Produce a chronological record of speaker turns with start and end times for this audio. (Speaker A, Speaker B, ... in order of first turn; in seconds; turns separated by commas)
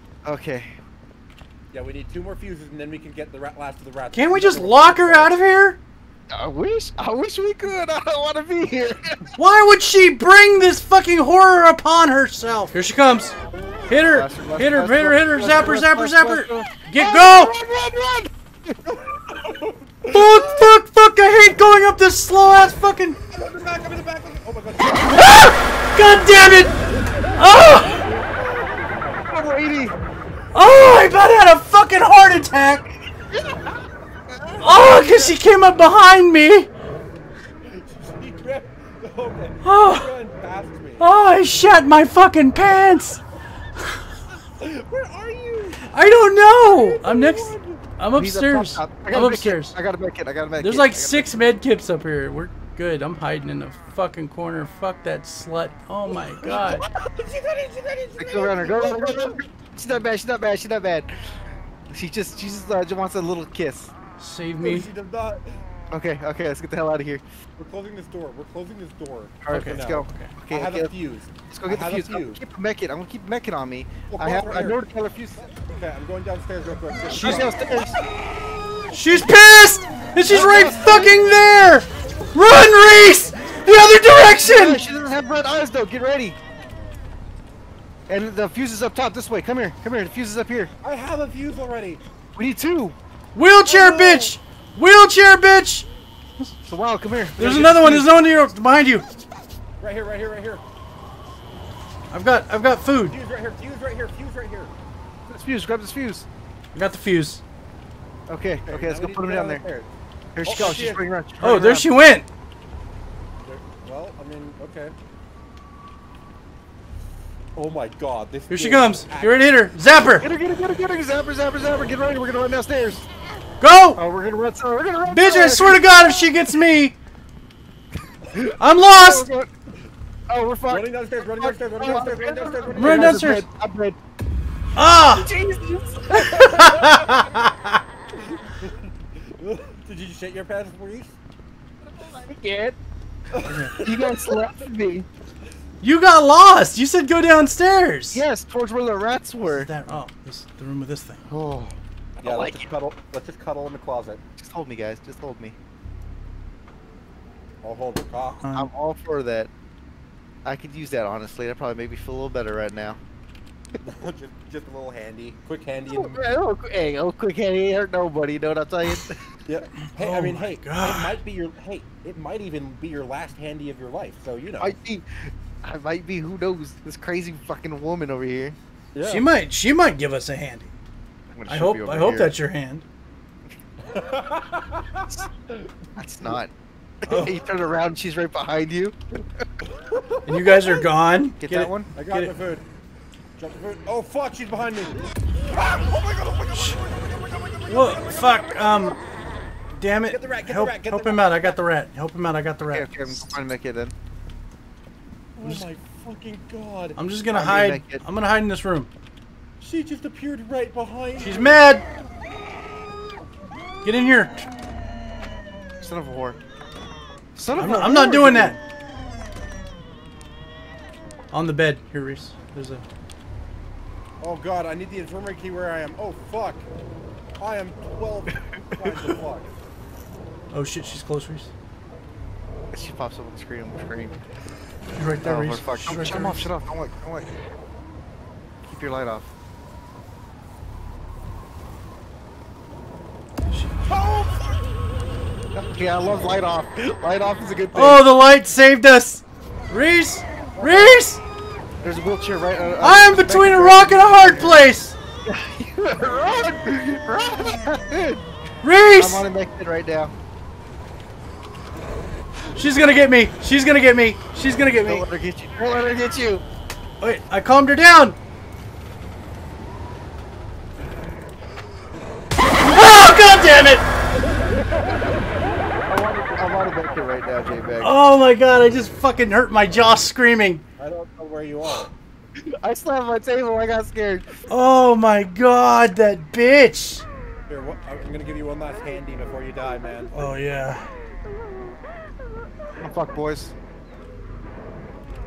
Speaker A: 0.2-0.8, Speaker B: 1.7-5.3, Speaker C: 4.1-5.8, Speaker A: 6.3-9.3, Speaker C: 9.4-13.3, Speaker C: 13.9-17.5, Speaker A: 13.9-19.0, Speaker B: 18.9-20.6, Speaker C: 20.1-23.2, Speaker B: 23.3-25.5, Speaker C: 25.0-26.8, Speaker C: 27.4-28.1, Speaker B: 27.7-29.3, Speaker A: 29.3-30.0, Speaker C: 30.5-32.9, Speaker A: 33.3-35.3, Speaker C: 34.6-36.7, Speaker B: 37.6-41.1, Speaker C: 39.6-40.1, Speaker C: 41.0-43.2, Speaker B: 44.6-45.9, Speaker C: 45.9-49.8, Speaker B: 46.6-47.8, Speaker A: 48.1-51.4, Speaker C: 50.6-56.8, Speaker B: 56.1-59.4, Speaker A: 58.2-61.3, Speaker A: 61.9-63.9, Speaker C: 64.2-64.9, Speaker B: 64.6-65.6, Speaker A: 65.9-67.2, Speaker B: 67.6-72.4, Speaker A: 69.4-75.5, Speaker C: 69.5-70.3, Speaker B: 74.1-74.8, Speaker B: 75.6-77.6, Speaker A: 77.1-78.0, Speaker C: 77.2-77.5, Speaker C: 78.9-84.8, Speaker A: 80.3-81.2, Speaker A: 84.4-86.4, Speaker A: 88.1-90.7, Speaker B: 90.8-92.0, Speaker A: 92.3-93.0, Speaker C: 93.3-95.9, Speaker B: 93.7-94.3, Speaker A: 96.6-98.0, Speaker C: 97.4-99.1, Speaker B: 99.8-100.6, Speaker C: 102.1-103.2, Speaker B: 103.1-104.7, Speaker A: 105.3-106.3, Speaker C: 106.7-107.4, Speaker A: 108.3-109.6, Speaker B: 108.7-109.9, Speaker A: 110.4-111.9, Speaker B: 110.4-111.1, Speaker C: 111.4-112.3, Speaker B: 113.5-115.0, Speaker B: 117.5-119.4, Speaker C: 118.5-120.3, Speaker A: 120.2-123.1, Speaker C: 123.6-124.0, Speaker A: 124.0-126.3, Speaker C: 125.1-127.0, Speaker A: 128.3-129.5, Speaker C: 128.6-129.3, Speaker A: 130.3-134.0, Speaker B: 130.7-133.2, Speaker C: 132.8-133.4, Speaker C: 134.8-135.3, Speaker A: 135.2-137.2, Speaker C: 136.1-137.8, Speaker B: 138.6-141.2, Speaker A: 141.9-142.8, Speaker B: 143.3-144.3, Speaker C: 143.5-143.7, Speaker A: 143.8-145.1, Speaker C: 145.8-148.2, Speaker A: 148.1-149.7, Speaker C: 149.5-151.2, Speaker A: 151.2-152.7, Speaker B: 152.2-154.2, Speaker A: 154.4-155.6, Speaker B: 157.6-158.4, Speaker C: 158.4-158.7, Speaker A: 158.5-159.5, Speaker A: 160.4-163.0, Speaker B: 163.8-166.2, Speaker A: 165.9-169.2, Speaker B: 169.5-174.8, Speaker C: 169.8-171.2, Speaker A: 174.6-178.6, Speaker B: 178.9-179.2, Speaker C: 179.0-180.7, Speaker A: 181.3-182.3, Speaker C: 181.5-182.8, Speaker B: 183.8-185.7, Speaker A: 186.0-186.5, Speaker A: 187.0-189.2, Speaker C: 187.1-187.4, Speaker B: 189.7-190.9, Speaker C: 190.3-192.3, Speaker A: 191.4-191.9, Speaker B: 191.9-192.7, Speaker B: 193.4-198.5, Speaker C: 197.7-199.0, Speaker C: 199.8-202.9, Speaker B: 200.1-201.6, Speaker A: 202.7-203.9, Speaker B: 205.4-207.0, Speaker C: 205.4-205.7, Speaker C: 207.0-208.9, Speaker A: 207.3-208.0, Speaker B: 209.6-211.6, Speaker C: 211.2-211.8, Speaker C: 213.8-214.5, Speaker A: 215.8-216.4, Speaker C: 217.4-218.6, Speaker A: 217.4-218.6, Speaker C: 221.3-222.8, Speaker B: 224.2-226.7, Speaker B: 227.4-229.5, Speaker C: 230.5-231.5, Speaker A: 232.7-234.2, Speaker C: 234.9-236.5, Speaker A: 235.2-237.4, Speaker A: 238.6-239.3, Speaker C: 243.5-243.8, Speaker B: 243.8-244.7, Speaker A: 245.5-248.1, Speaker C: 247.7-251.2, Speaker A: 250.6-250.9, Speaker A: 251.8-254.6, Speaker C: 252.8-255.0, Speaker A: 255.2-258.3, Speaker C: 258.6-259.3, Speaker A: 258.9-260.1, Speaker C: 262.5-265.1, Speaker A: 264.8-266.4, Speaker C: 267.0-268.2, Speaker C: 272.6-273.9, Speaker A: 274.7-275.1, Speaker A: 275.9-277.9, Speaker C: 277.8-280.6, Speaker B: 280.8-281.9, Speaker A: 282.4-284.3, Speaker C: 284.5-287.1, Speaker B: 287.5-290.1, Speaker C: 290.1-290.8, Speaker A: 292.8-293.5